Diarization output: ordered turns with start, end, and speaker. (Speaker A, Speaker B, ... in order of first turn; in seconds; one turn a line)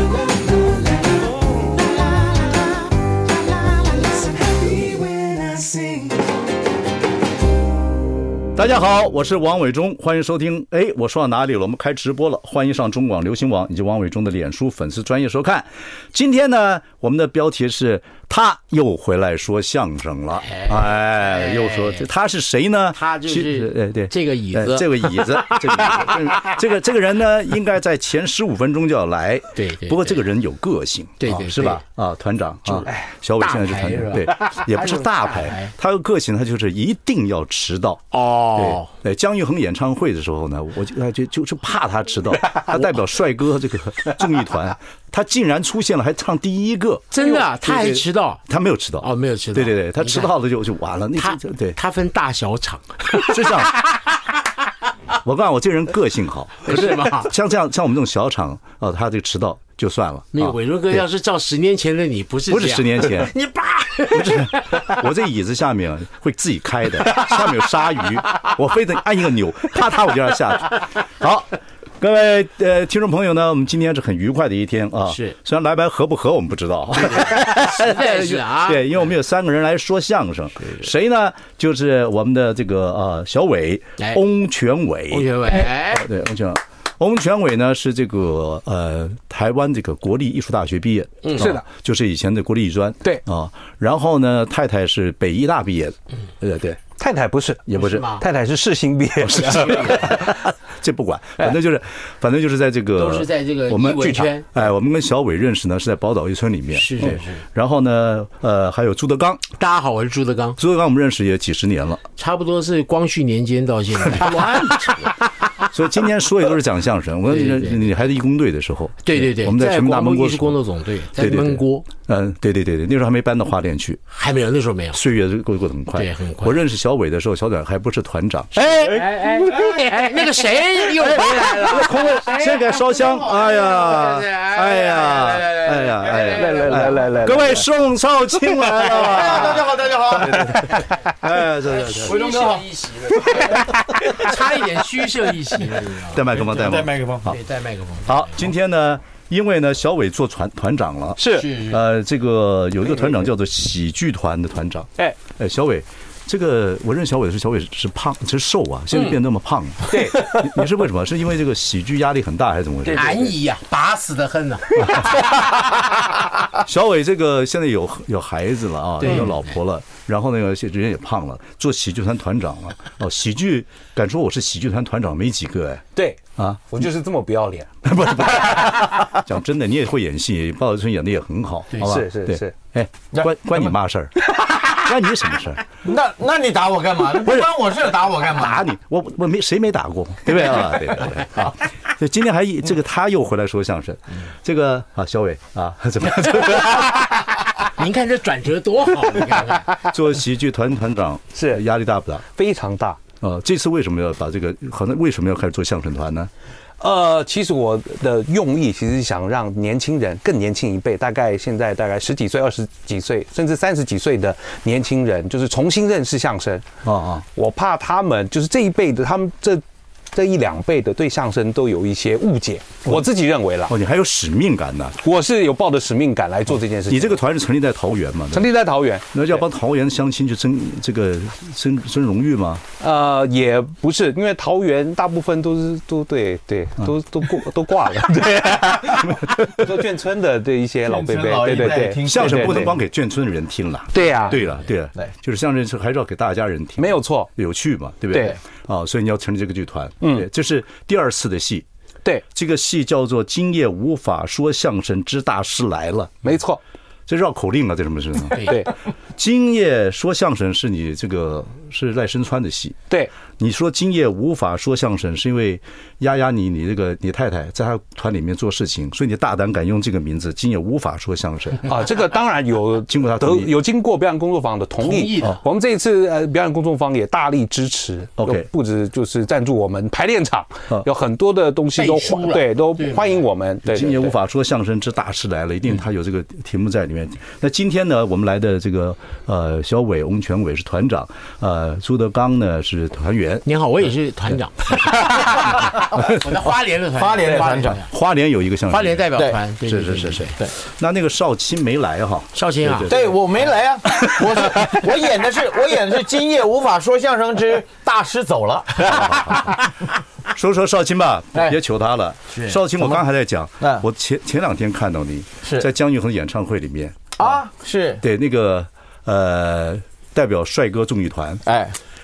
Speaker A: 8.5-51.8
Speaker B: 20.5-22.1
Speaker B: 22.9-26.6
Speaker B: 29.5-30.2
Speaker B: 31.2-31.8
Speaker B: 33.4-35.7
Speaker B: 38.1-38.9
Speaker B: 47.1-48.4
Speaker B: 49.0-50.3
Speaker B: 51.1-54.2
Speaker A: 53.2-53.7
Speaker A: 55.2-61.0
Speaker B: 56.6-57.3
Speaker B: 60.3-65.0
Speaker A: 62.5-63.3
Speaker A: 64.0-96.8
Speaker B: 75.1-75.3
Speaker B: 77.0-79.1
Speaker B: 85.1-86.1
Speaker B: 91.2-91.5
Speaker C: 91.4-91.6
Speaker C: 97.0-100.3
Speaker A: 97.7-98.1
Speaker B: 97.8-98.2
Speaker A: 99.2-109.4
Speaker B: 99.3-100.2
Speaker B: 103.0-104.5
Speaker B: 106.7-107.4
Speaker B: 109.6-110.6
Speaker A: 110.6-112.0
Speaker B: 112.2-115.2
Speaker A: 114.1-114.9
Speaker A: 115.5-120.6
Speaker B: 117.3-117.8
Speaker B: 119.0-121.8
Speaker A: 121.2-124.0
Speaker B: 124.1-125.0
Speaker A: 124.9-128.7
Speaker B: 125.9-126.6
Speaker B: 128.5-136.8
Speaker A: 130.9-142.4
Speaker C: 136.3-137.7
Speaker D: 138.9-140.5
Speaker B: 141.9-146.4
Speaker D: 142.0-143.6
Speaker A: 146.0-147.4
Speaker D: 146.4-147.3
Speaker B: 147.2-148.5
Speaker A: 148.1-163.2
Speaker C: 151.2-151.5
Speaker B: 151.3-151.8
Speaker C: 159.9-160.5
Speaker C: 162.8-163.3
Speaker B: 162.9-165.1
Speaker A: 164.8-165.3
Speaker A: 166.5-175.8
Speaker B: 169.0-169.5
Speaker C: 175.9-177.8
Speaker A: 176.4-176.6
Speaker A: 177.8-185.6
Speaker C: 181.8-182.5
Speaker D: 183.1-183.7
Speaker D: 185.8-188.6
Speaker A: 187.2-187.5
Speaker A: 188.3-197.1
Speaker B: 196.5-199.8
Speaker A: 199.8-202.2
Speaker C: 201.3-201.6
Speaker C: 202.3-203.0
Speaker A: 203.2-206.3
Speaker C: 206.8-216.6
Speaker A: 216.8-217.2
Speaker C: 217.3-223.8
Speaker A: 223.7-225.0
Speaker C: 225.0-227.2
Speaker A: 226.9-228.5
Speaker C: 228.3-229.4
Speaker A: 229.1-232.6
Speaker C: 232.8-242.7
Speaker A: 239.0-239.8
Speaker D: 240.9-242.8
Speaker A: 241.5-251.7
Speaker C: 243.9-244.4
Speaker C: 246.8-247.3
Speaker C: 248.1-248.4
Speaker C: 250.0-250.3
Speaker A: 252.3-256.2
Speaker C: 256.2-256.6
Speaker A: 257.1-262.8
Speaker C: 258.4-258.7
Speaker A: 263.3-271.7
Speaker C: 271.6-284.1
Speaker A: 272.9-273.5
Speaker B: 274.8-275.4
Speaker A: 278.2-278.5
Speaker B: 281.8-283.2
Speaker A: 283.7-293.4
Speaker B: 293.4-297.9
Speaker A: 295.9-296.2
Speaker D: 296.9-297.8
Speaker A: 297.8-303.2
Speaker B: 298.7-300.4
Speaker B: 302.3-302.9
Speaker D: 302.9-309.6
Speaker A: 308.8-309.7
Speaker A: 310.3-317.4
Speaker D: 317.2-318.0
Speaker A: 318.0-321.4
Speaker D: 321.4-321.8